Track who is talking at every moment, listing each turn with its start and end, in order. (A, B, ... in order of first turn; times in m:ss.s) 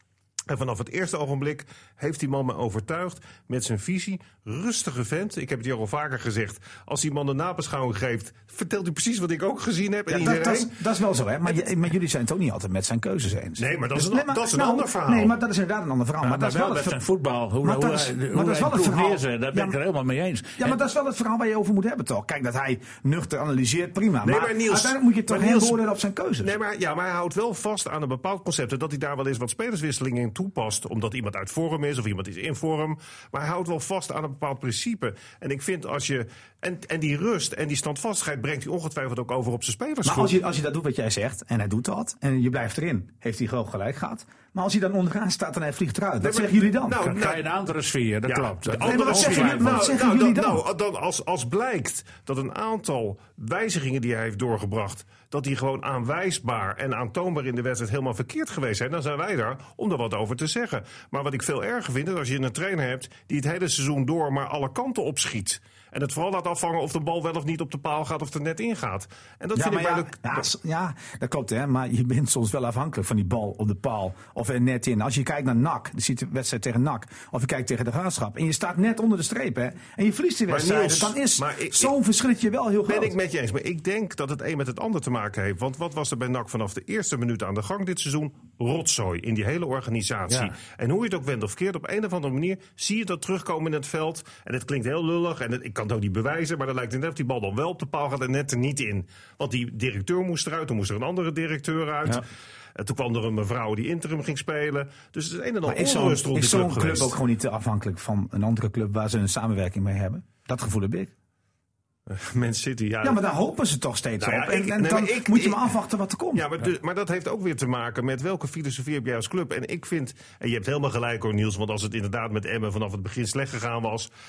0:00.5-0:10.8 A
0:10.1-0:17.0 B
0:13.6-0:15.4 A
0:16.2-0:20.8 C
0:17.6-0:19.8 B
0:20.6-0:26.5 B
0:24.2-0:25.8 A
0:26.4-0:40.4 A
0:40.0-0:47.0 B
0:46.2-0:47.5 A
0:47.0-0:49.7 C
0:48.3-1:10.5 A
0:48.8-0:50.6 B
1:09.5-1:23.2 B
1:20.5-1:21.9 A
1:22.9-1:47.2 A
1:30.3-1:30.5 C
1:45.6-1:51.1 B
1:52.1-1:53.2 A
1:53.0-1:56.5 B
1:54.2-1:55.7 A
1:56.3-2:04.1 A